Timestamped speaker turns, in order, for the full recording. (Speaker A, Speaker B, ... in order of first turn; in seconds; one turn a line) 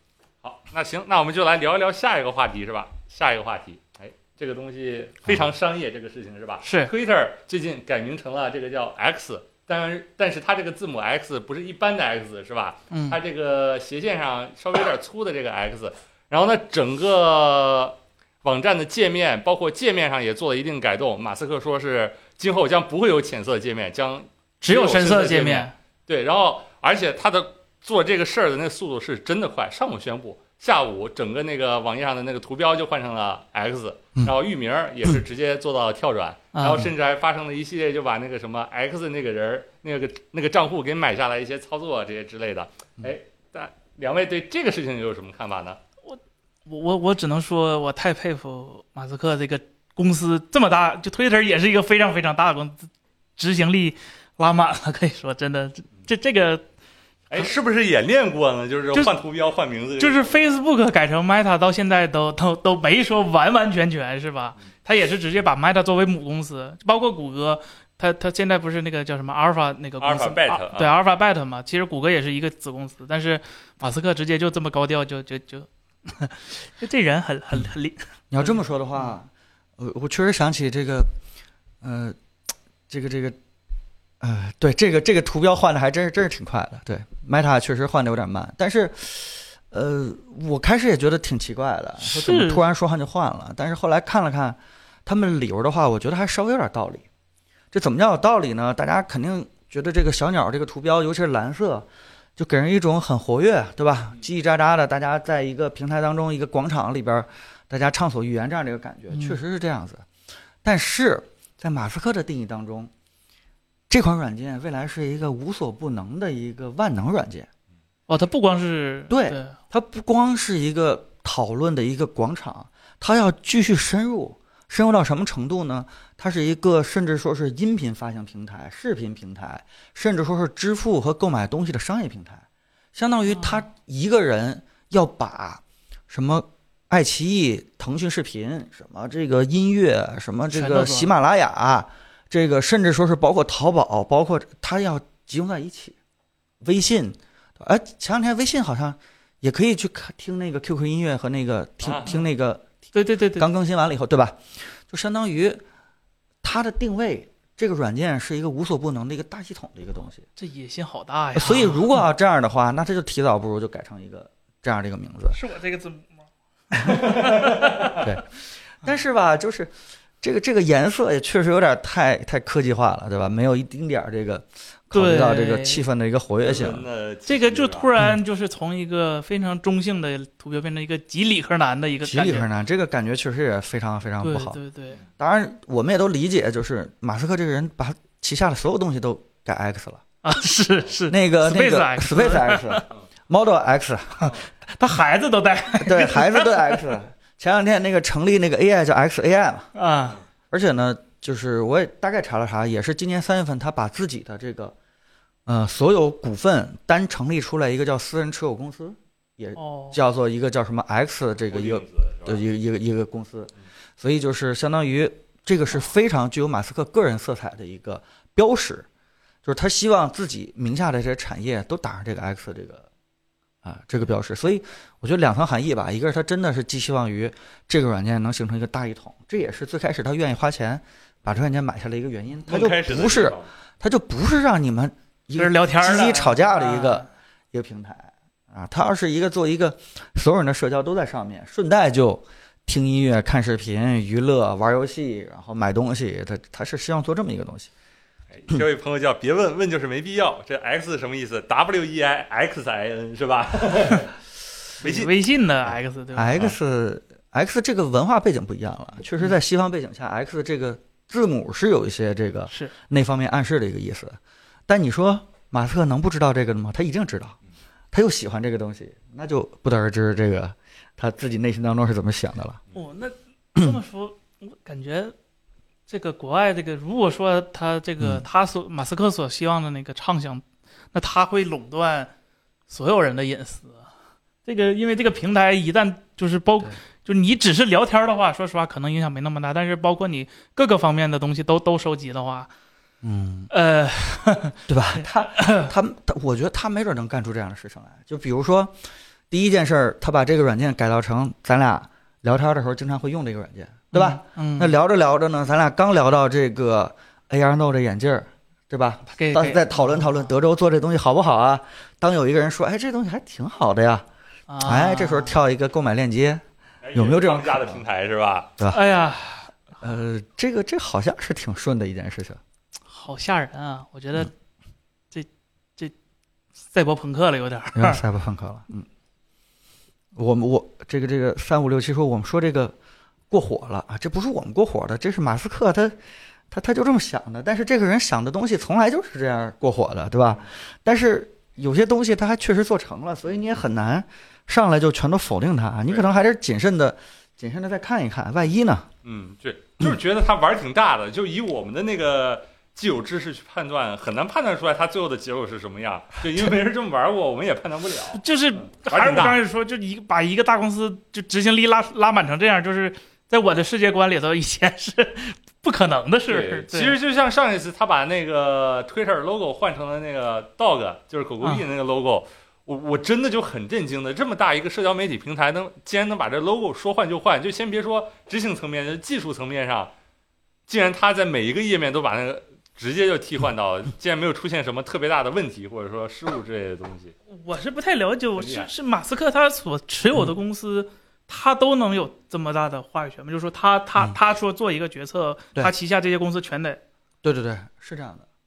Speaker A: 0.4-45.8
Speaker B: 6.6-6.9
Speaker B: 12.9-13.2
Speaker B: 24.6-25.7
Speaker B: 36.5-36.9
Speaker B: 46.1-56.6
Speaker A: 57.3-60.5
Speaker B: 60.0-78.5
Speaker A: 70.0-71.0
Speaker C: 78.3-81.1
Speaker C: 81.8-82.2
Speaker C: 82.9-83.4
Speaker C: 84.2-97.0
Speaker B: 92.0-92.6
Speaker C: 97.7-110.0
Speaker B: 109.1-109.4
Speaker C: 110.6-112.9
Speaker C: 113.9-117.5
Speaker B: 118.1-119.5
Speaker C: 119.1-132.4
Speaker C: 132.9-145.9
Speaker B: 133.3-133.7
Speaker B: 140.5-141.1
Speaker C: 146.6-152.7
Speaker A: 151.8-152.1
Speaker B: 152.9-153.5
Speaker C: 153.3-155.6
Speaker C: 156.4-160.2
Speaker B: 160.3-162.0
Speaker C: 161.3-165.4
Speaker B: 165.3-166.2
Speaker B: 166.8-168.0
Speaker A: 167.1-167.5
Speaker C: 168.0-168.2
Speaker C: 168.8-176.8
Speaker B: 174.9-175.8
Speaker A: 176.4-177.9
Speaker B: 177.3-182.5
Speaker C: 182.1-184.6
Speaker B: 184.2-185.0
Speaker C: 185.2-190.0
Speaker B: 190.2-192.8
Speaker C: 191.1-194.3
Speaker B: 194.2-196.8
Speaker C: 195.8-199.7
Speaker B: 199.7-200.2
Speaker C: 200.5-204.7
Speaker C: 205.4-218.8
Speaker B: 209.6-210.0
Speaker A: 211.5-212.4
Speaker C: 219.4-222.8
Speaker C: 223.6-247.7
Speaker A: 232.5-233.5
Speaker B: 235.4-237.1
Speaker A: 248.3-254.2
Speaker A: 254.7-255.1
Speaker B: 254.8-256.4
Speaker C: 256.1-267.4
Speaker C: 267.9-272.6
Speaker B: 272.7-275.1
Speaker B: 275.9-282.1
Speaker B: 282.7-283.9
Speaker B: 284.4-292.5
Speaker C: 293.0-293.5
Speaker B: 293.5-295.7
Speaker C: 294.7-298.8
Speaker C: 299.3-314.1
Speaker B: 303.9-304.7
Speaker B: 309.2-310.2
Speaker B: 314.5-315.4
Speaker C: 314.6-316.4
Speaker A: 316.8-318.5
Speaker C: 316.9-317.8
Speaker B: 318.7-319.5
Speaker C: 319.8-322.4
Speaker B: 322.9-324.3
Speaker B: 325.1-325.9
Speaker B: 326.7-328.0
Speaker C: 327.7-328.9
Speaker C: 330.1-332.7
Speaker C: 333.3-336.0
Speaker C: 336.5-348.9
Speaker A: 349.0-359.4
Speaker B: 358.1-366.9
Speaker A: 366.3-379.9
Speaker A: 380.7-387.1
Speaker B: 387.3-396.8
Speaker A: 388.4-388.7
Speaker C: 397.2-398.2